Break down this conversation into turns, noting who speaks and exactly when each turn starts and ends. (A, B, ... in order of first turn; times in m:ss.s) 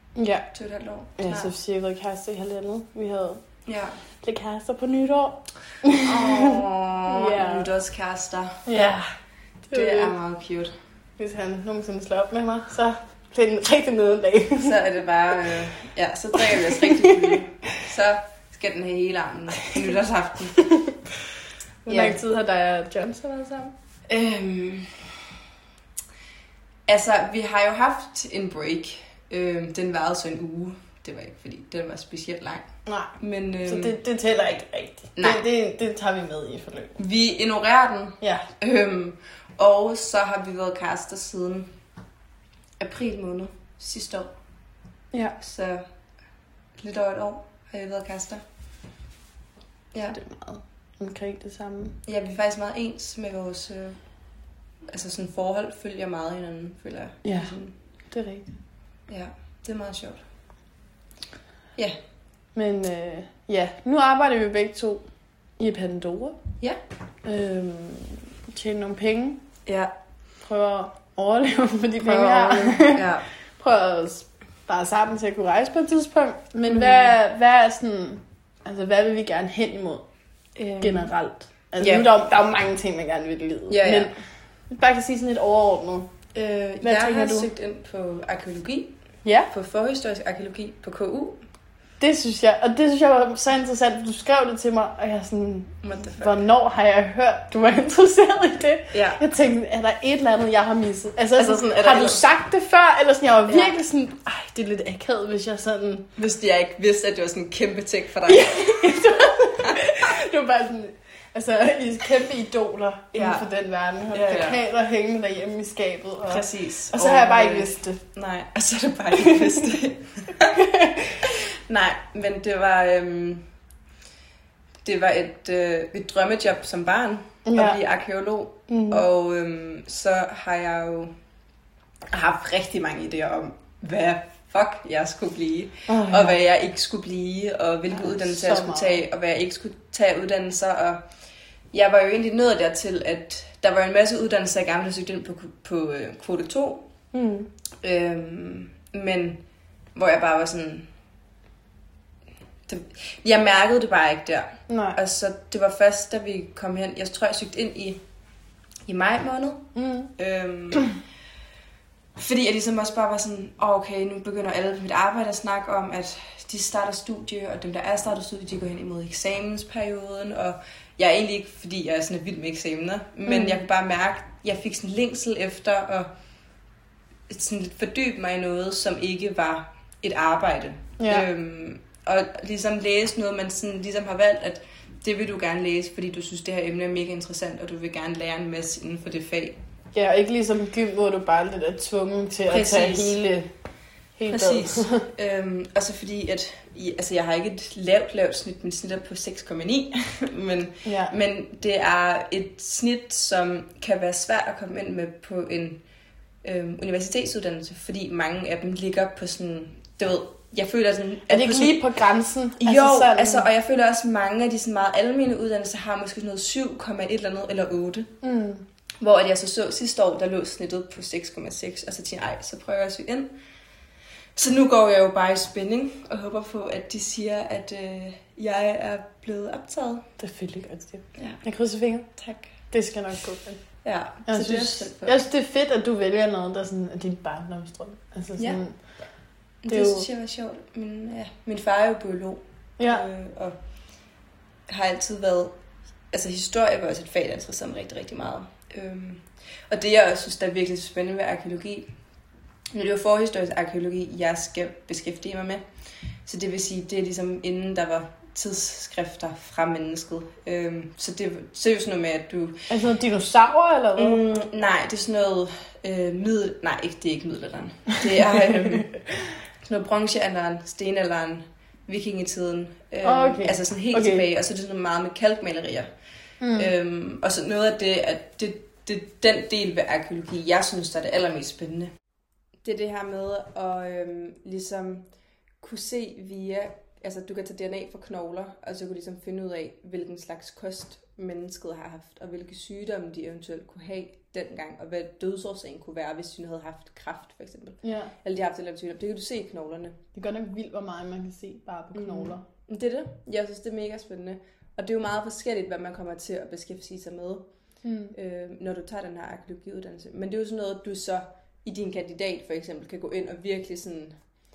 0:00.1-0:00.5 A
0:00.5-0:01.5 B
0:01.2-0:07.7 A
0:03.6-0:04.0 B
0:05.9-0:08.6 B
0:08.6-0:09.2 A
0:09.7-0:10.2 A
0:09.7-0:10.7 B
0:11.2-0:14.8 A
0:14.6-0:20.7 B
0:15.3-0:15.6 A
0:16.4-0:17.4 A
0:21.8-0:22.2 B
0:21.8-0:23.8 A
0:24.1-0:25.1 B
0:26.9-0:33.9 B
0:32.8-0:37.0 A
0:35.2-0:35.4 B
0:37.0-0:41.7 B
0:38.2-0:38.5 A
0:42.8-0:44.3 B
0:45.1-0:45.4 A
0:45.4-0:45.8 B
0:46.8-0:48.4 B
0:49.9-0:50.2 B
0:50.1-0:52.0 A
0:52.0-0:57.7 B
0:57.2-0:57.6 A
0:58.1-0:58.5 A
0:59.1-1:00.2 B
1:02.5-1:06.4 A
1:07.2-1:09.4 A
1:09.6-1:09.9 B
1:10.4-1:20.0 A
1:12.0-1:13.3 B
1:16.7-1:17.1 B
1:20.6-1:21.1 B
1:20.8-1:26.1 A
1:21.8-1:22.1 B
1:23.7-1:24.2 B
1:26.3-1:31.4 B
1:26.8-1:27.5 A
1:29.2-1:29.5 A
1:32.0-1:46.1 A
1:35.8-1:36.3 B
1:38.9-1:39.2 B
1:41.4-1:42.2 B
1:43.5-1:43.8 B
1:46.2-1:49.8 B
1:48.2-1:58.0 A
1:53.1-1:53.5 B
1:54.1-1:54.6 B
1:56.3-2:00.6 B
2:00.5-2:01.2 A
2:01.3-2:03.5 B
2:04.8-2:11.1 B
2:07.4-2:07.8 A
2:08.7-2:09.0 A
2:12.1-2:21.1 B
2:15.9-2:16.4 A
2:17.9-2:19.0 A
2:21.7-2:26.9 B
2:27.1-2:27.5 A
2:27.8-2:29.4 B
2:29.9-2:30.9 B
2:32.7-2:38.0 B
2:34.7-2:35.0 A
2:38.8-2:40.9 B
2:39.8-2:40.1 A
2:42.2-2:56.1 B
2:53.2-2:53.6 A
2:57.3-3:09.6 B
3:01.0-3:01.3 A
3:09.9-3:13.5 A
3:12.5-3:13.2 B
3:14.1-3:15.0 A
3:14.3-3:25.8 B
3:20.8-3:21.1 A
3:26.4-3:31.8 B
3:31.3-3:33.5 A
3:32.6-3:38.1 B
3:38.2-3:38.6 A
3:39.0-3:43.4 B
3:44.4-3:50.1 B
3:50.2-3:59.0 A
3:51.1-3:51.4 B
3:52.2-3:52.5 B
3:53.8-3:55.2 B
3:58.4-3:58.6 B
3:59.6-4:03.5 B
3:59.7-4:00.1 A
4:02.8-4:03.0 A
4:04.7-4:05.6 B
4:06.1-4:11.9 B
4:12.7-4:15.6 B
4:16.2-4:22.7 B
4:22.7-4:24.2 A
4:24.0-4:29.0 B
4:29.6-4:41.9 B
4:33.0-4:34.2 A
4:36.4-4:36.7 A
4:42.6-4:45.0 B
4:45.6-5:00.0 B
4:57.8-4:58.1 A
5:00.1-5:02.4 A
5:01.9-5:07.5 B
5:07.8-5:08.2 A
5:08.1-5:14.3 B